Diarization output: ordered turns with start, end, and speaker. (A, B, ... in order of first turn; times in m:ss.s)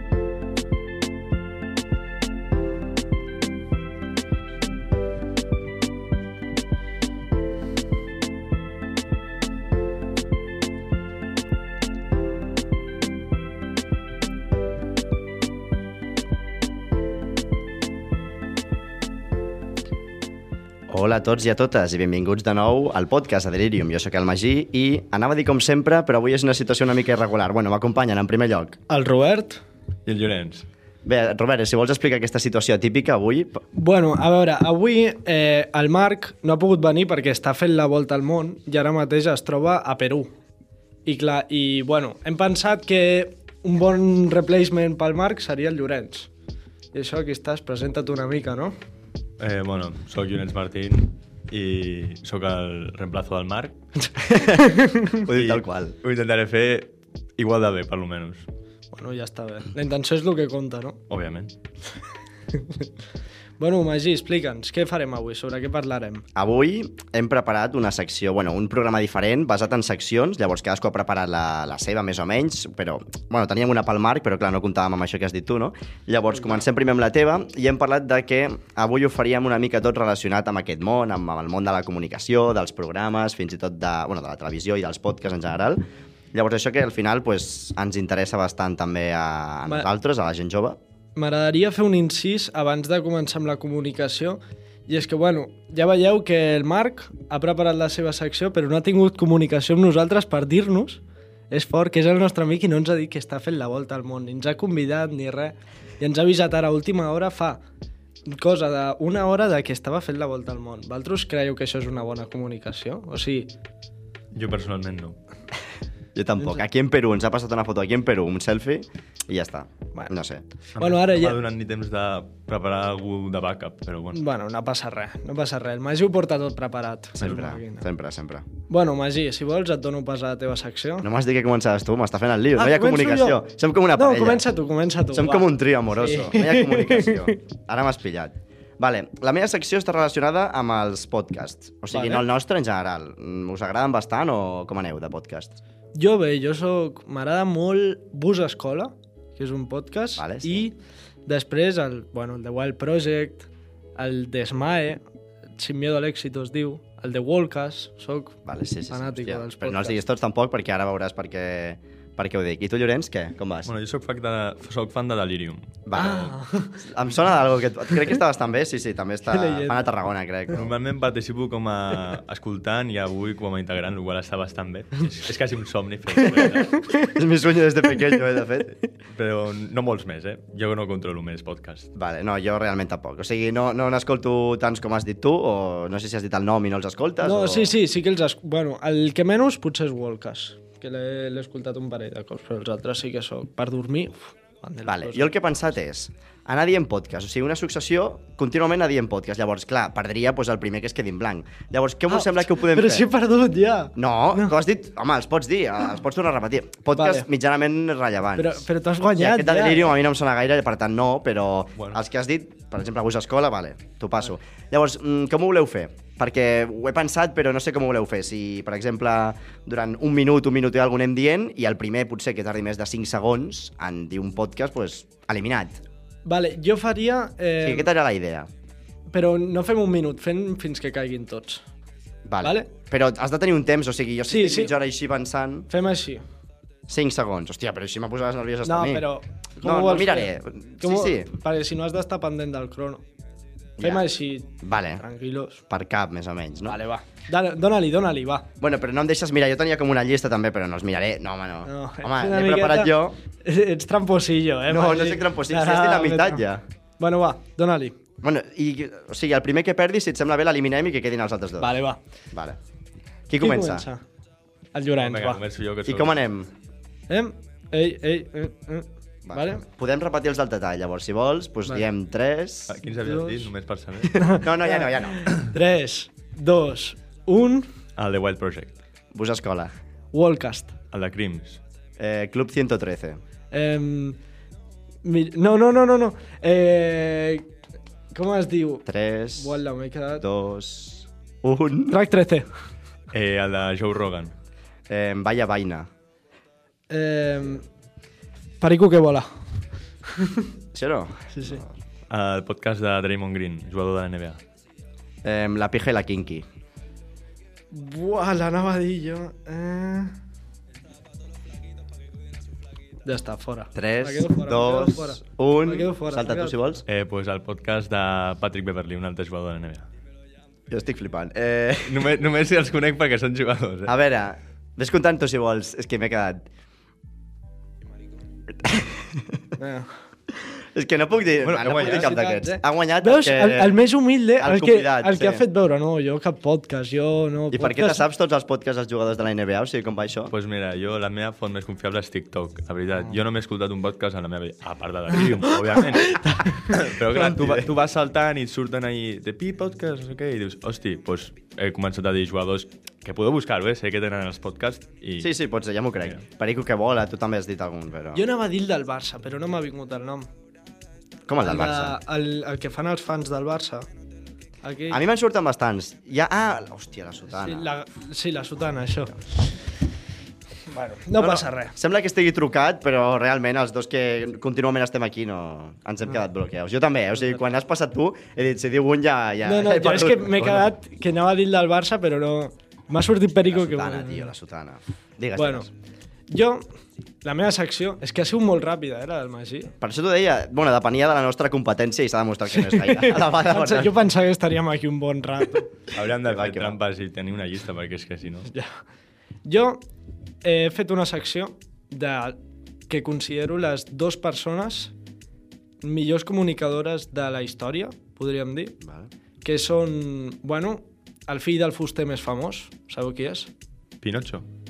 0:20.9-0:28.8 A
0:28.9-0:29.6 B
0:30.0-0:30.7 C
0:31.0-0:33.6 A
0:33.7-0:40.3 B
0:41.0-0:46.3 B
0:46.9-0:48.8 B
0:49.4-0:53.8 C
0:54.2-0:56.0 A
0:54.6-0:55.2 B
0:55.3-0:58.5 C
0:58.9-1:01.0 B
1:01.1-1:01.5 C
1:02.5-1:02.8 B
1:03.6-1:06.2 B
1:06.4-1:25.8 A
1:16.3-1:16.6 B
1:26.3-1:30.8 A
1:31.2-1:47.6 B
1:48.3-1:53.5 B
1:54.3-1:55.2 C
1:56.1-2:00.4 A
1:56.4-1:56.6 B
2:00.8-2:01.4 B
2:00.8-2:04.2 C
2:04.1-2:07.9 B
2:07.2-2:08.4 A
2:08.7-2:11.1 B
2:11.0-2:14.4 A
2:12.5-2:17.4 B
2:15.1-2:25.6 A
2:21.9-2:22.2 B
2:25.9-2:35.0 B
2:30.2-2:30.7 A
2:35.6-2:38.4 B
2:38.4-2:43.7 A
2:38.9-2:40.0 B
2:43.6-2:45.7 C
2:45.8-2:50.7 A
2:45.9-2:46.8 B
2:49.3-2:49.9 B
2:50.5-2:56.8 C
2:57.0-2:58.8 A
2:59.1-3:01.9 C
3:01.9-3:07.8 A
3:07.2-3:15.4 B
3:14.8-3:23.1 A
3:22.1-3:24.5 B
3:24.0-3:45.8 A
3:26.9-3:27.3 B
3:28.4-3:30.0 B
3:46.2-3:47.9 B
3:47.6-3:48.5 A
3:49.1-3:51.6 B
3:52.2-3:55.7 A
3:52.4-3:52.7 B
3:54.3-3:54.8 B
3:55.7-3:56.2 B
3:56.9-3:59.1 A
3:58.6-4:03.0 B
3:59.6-4:01.3 A
4:03.8-4:04.0 A
4:03.8-4:05.6 B
4:04.6-4:05.0 A
4:05.7-4:06.8 A
4:06.7-4:08.5 B
4:08.6-4:13.2 A
4:11.6-4:16.5 B
4:14.7-4:16.6 A
4:17.0-4:18.0 B
4:18.2-4:21.8 A
4:21.6-4:22.0 B
4:22.3-4:22.6 A
4:23.3-4:23.9 A
4:23.4-4:24.0 B
4:24.7-4:25.4 B
4:25.0-4:26.2 C
4:25.8-4:26.5 A
4:27.1-4:29.6 B
4:29.2-4:32.8 A
4:32.7-4:34.2 C
4:32.9-4:33.5 B
4:34.1-4:35.3 A
4:34.2-4:37.7 B
4:38.0-4:38.8 C
4:39.1-4:39.7 A
4:40.1-4:40.7 B
4:40.9-4:41.6 C
4:42.0-4:43.2 A
4:43.5-4:44.2 B
4:45.0-4:47.5 B
4:48.1-4:50.2 B
4:48.8-4:49.6 A
4:50.2-4:52.0 A
4:51.9-4:52.5 B
4:53.1-4:54.3 C
4:54.9-4:55.9 A
4:56.9-4:57.6 B
4:58.6-4:59.3 B
5:00.2-5:00.4 B
5:00.7-5:01.7 A
5:01.3-5:01.6 B
5:02.1-5:04.4 C
5:05.2-5:06.4 A
5:07.7-5:10.1 B
5:13.0-5:16.6 B
5:13.7-5:16.8 A
5:16.8-5:19.9 C
5:20.7-5:22.1 A
5:21.8-5:23.9 C
5:23.9-5:26.4 A
5:28.6-5:29.4 A
5:29.6-5:29.9 B
5:30.3-5:33.8 A
5:31.4-5:32.1 C
5:31.6-5:38.0 B
5:34.4-5:35.4 A
5:37.5-5:40.3 A
5:40.3-5:55.3 C
5:46.1-5:46.5 B
5:47.1-5:47.7 A
5:55.2-5:58.2 A
5:58.1-6:00.3 B
6:01.3-6:02.0 A
6:01.4-6:03.8 B
6:04.6-6:05.0 B
6:04.9-6:07.8 A
6:07.3-6:09.2 B
6:10.7-6:11.7 B
6:11.2-6:20.7 A
6:17.2-6:17.5 B
6:19.4-6:24.3 B
6:23.4-6:25.7 A
6:25.4-6:25.7 B
6:26.3-6:26.6 B
6:27.2-6:29.7 B
6:29.8-6:34.0 A
6:32.5-6:35.8 B
6:35.9-6:38.5 C
6:36.2-6:36.8 A
6:38.5-6:38.8 B
6:39.4-6:39.8 B
6:40.4-6:42.4 B
6:42.9-6:44.9 B
6:45.8-6:48.8 B
6:48.8-6:49.1 A
6:49.4-6:53.5 B
6:54.0-6:54.5 C